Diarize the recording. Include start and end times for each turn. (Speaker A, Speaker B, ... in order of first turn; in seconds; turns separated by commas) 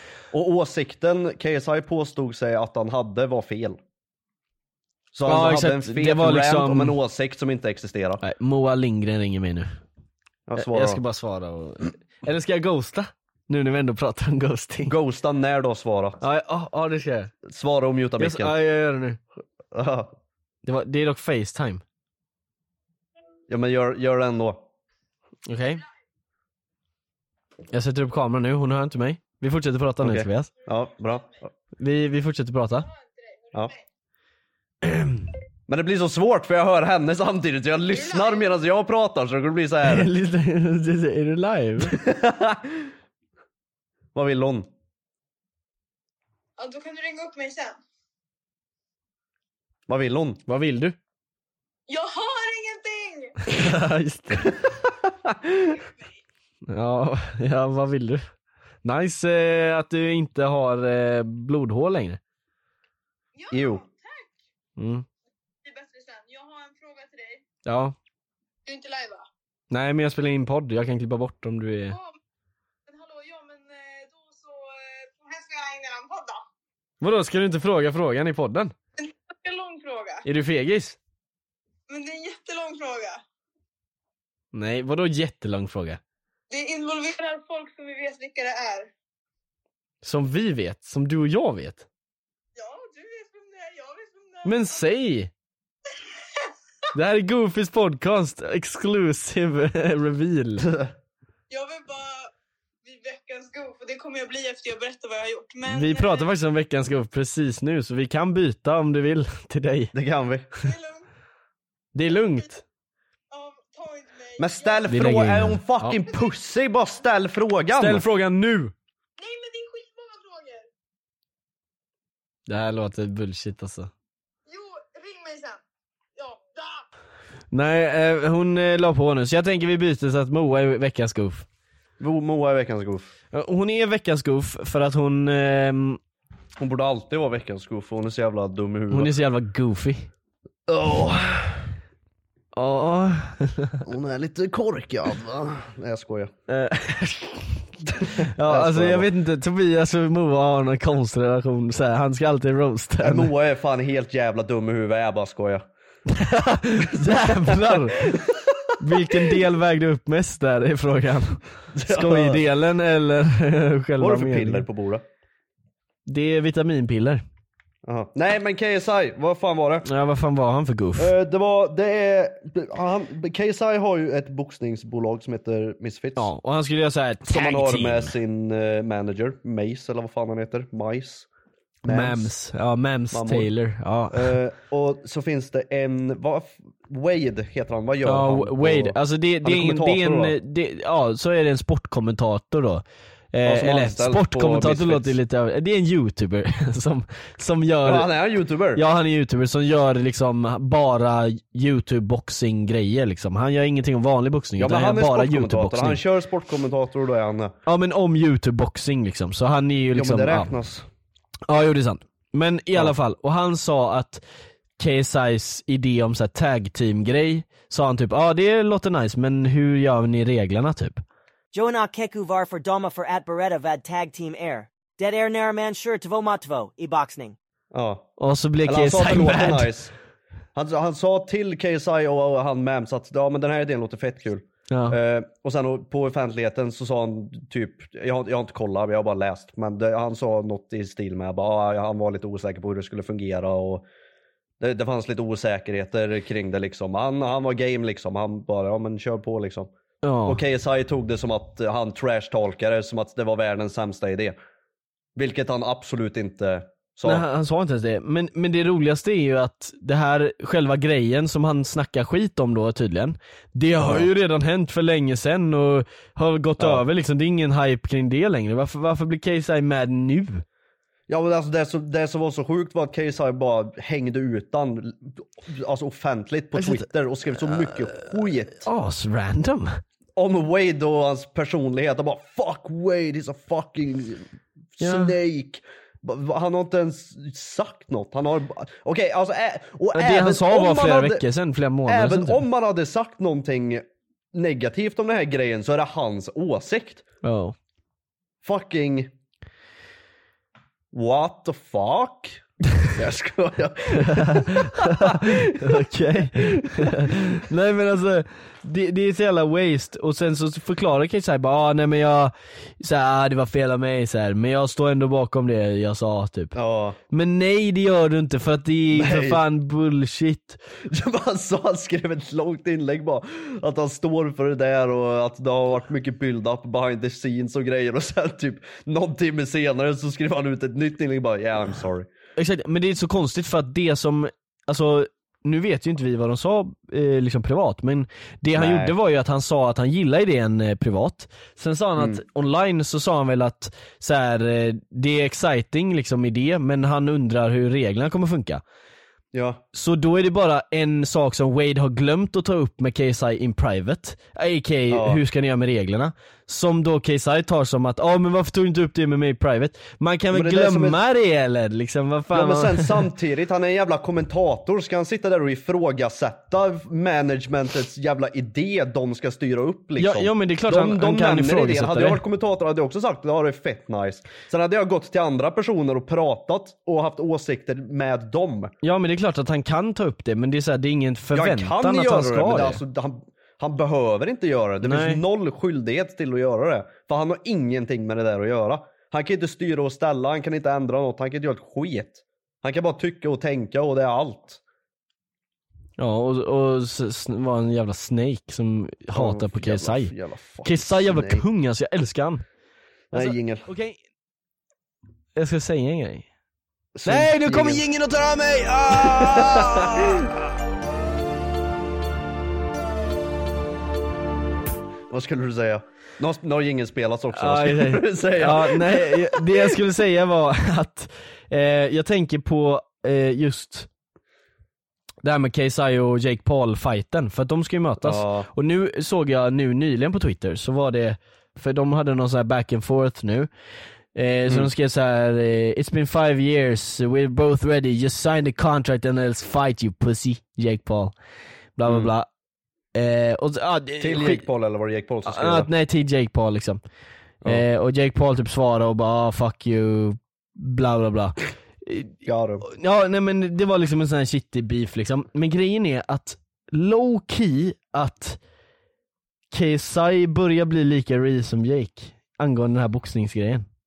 Speaker A: 0.3-3.8, Speaker A: 5.1-8.2, Speaker B: 5.3-7.0, Speaker B: 8.2-9.8, Speaker A: 10.5-11.0, Speaker B: 10.6-14.9, Speaker A: 14.9-16.2, Speaker B: 16.2-17.3, Speaker A: 17.5-18.5, Speaker B: 18.2-19.2, Speaker A: 19.7-20.1, Speaker B: 20.6-21.8, Speaker A: 23.5-24.6, Speaker B: 25.5-25.8, Speaker B: 27.7-30.5, Speaker A: 30.0-31.5, Speaker B: 31.8-32.9, Speaker C: 32.8-33.8, Speaker B: 34.8-35.3, Speaker A: 35.7-40.1, Speaker C: 37.9-38.6, Speaker B: 39.9-42.0, Speaker A: 41.9-42.9, Speaker A: 44.1-44.7, Speaker C: 46.6-47.8, Speaker A: 49.9-50.4, Speaker B: 50.5-51.0, Speaker C: 51.9-53.4, Speaker B: 53.5-54.5, Speaker A: 54.4-54.7, Speaker A: 55.2-55.7, Speaker B: 56.7-58.3, Speaker B: 58.9-62.2, Speaker C: 63.4-64.4, Speaker A: 63.5-63.8, Speaker B: 64.8-65.0, Speaker C: 65.6-67.4, Speaker B: 67.7-68.0, Speaker C: 68.7-69.3, Speaker B: 69.7-72.0, Speaker C: 72.9-76.4, Speaker B: 77.0-78.7, Speaker C: 79.0-80.3, Speaker B: 80.2-81.0, Speaker C: 81.9-83.2, Speaker B: 84.5-86.0, Speaker C: 86.5-88.9, Speaker B: 90.0-91.9, Speaker C: 92.5-94.8, Speaker B: 94.5-95.3, Speaker B: 97.0-100.7, Speaker A: 100.6-100.9, Speaker C: 101.5-102.3, Speaker C: 102.8-106.3, Speaker B: 105.7-109.9, Speaker A: 109.9-110.5, Speaker C: 110.6-111.0, Speaker B: 112.0-112.6, Speaker C: 113.3-114.9, Speaker A: 114.4-118.0, Speaker B: 114.9-116.0, Speaker C: 116.1-116.3, Speaker B: 117.8-118.7, Speaker C: 119.2-120.7, Speaker B: 122.5-123.9, Speaker C: 124.5-125.6, Speaker C: 126.2-126.8, Speaker B: 127.5-131.4, Speaker A: 132.0-133.1, Speaker B: 133.3-136.0, Speaker A: 136.6-139.1, Speaker B: 138.9-140.1, Speaker A: 140.7-141.7, Speaker B: 142.6-143.8, Speaker A: 143.8-146.3, Speaker B: 146.5-147.7, Speaker A: 148.0-149.1, Speaker B: 148.4-153.3, Speaker A: 153.0-155.7, Speaker B: 156.1-158.2, Speaker A: 156.9-159.1, Speaker B: 158.8-164.7, Speaker A: 161.7-162.4, Speaker A: 164.0-165.0, Speaker B: 166.1-167.2, Speaker A: 167.9-169.9, Speaker B: 169.8-171.1, Speaker A: 171.0-176.3, Speaker B: 176.2-178.1, Speaker A: 177.3-181.3, Speaker A: 181.8-182.3, Speaker B: 181.9-184.3, Speaker A: 183.1-183.5, Speaker A: 184.1-190.4, Speaker B: 188.1-198.1, Speaker A: 193.5-195.2, Speaker A: 197.8-198.8, Speaker B: 198.8-206.0, Speaker A: 204.6-207.6, Speaker B: 207.7-210.5, Speaker A: 209.9-210.8, Speaker B: 211.5-214.2, Speaker B: 214.8-221.0, Speaker D: 221.5-227.4, Speaker A: 227.7-228.1, Speaker B: 228.2-229.7, Speaker A: 228.7-229.9, Speaker A: 230.5-243.8, Speaker B: 234.7-235.0, Speaker A: 244.6-249.7, Speaker B: 250.0-250.4, Speaker A: 250.3-254.3, Speaker A: 255.2-257.2, Speaker B: 257.1-270.4, Speaker A: 263.8-264.1, Speaker A: 271.1-278.6, Speaker B: 276.6-276.9, Speaker B: 277.7-279.8, Speaker A: 280.2-284.3, Speaker A: 284.8-291.2, Speaker B: 284.8-285.1, Speaker B: 289.9-292.4, Speaker A: 291.9-297.0, Speaker B: 297.2-297.6, Speaker A: 298.4-299.1, Speaker A: 300.9-302.4, Speaker A: 302.9-307.1, Speaker B: 303.9-316.6, Speaker A: 316.6-317.0, Speaker B: 317.1-320.6, Speaker A: 318.9-319.4, Speaker A: 320.9-332.1, Speaker B: 332.4-348.6, Speaker A: 338.6-338.9, Speaker A: 349.3-349.6, Speaker B: 349.7-363.1, Speaker A: 354.9-355.2, Speaker A: 360.3-361.0, Speaker A: 362.3-378.7, Speaker B: 370.0-372.2, Speaker B: 378.8-382.8, Speaker A: 381.3-394.6, Speaker B: 384.8-385.2, Speaker B: 396.0-400.1, Speaker A: 399.1-401.4, Speaker B: 400.6-402.4, Speaker A: 403.1-403.7, Speaker B: 403.1-404.0, Speaker B: 405.4-406.3, Speaker A: 406.9-407.8, Speaker B: 407.1-410.3, Speaker A: 408.9-410.2, Speaker A: 415.1-419.7, Speaker B: 417.4-423.9, Speaker B: 425.2-433.5, Speaker A: 428.0-428.5, Speaker B: 434.1-441.1, Speaker B: 441.8-442.3, Speaker A: 441.9-442.1, Speaker B: 442.9-444.4, Speaker A: 444.0-445.7, Speaker B: 445.3-446.8, Speaker B: 447.4-452.1, Speaker A: 452.2-452.7, Speaker B: 452.7-458.4, Speaker B: 459.5-463.7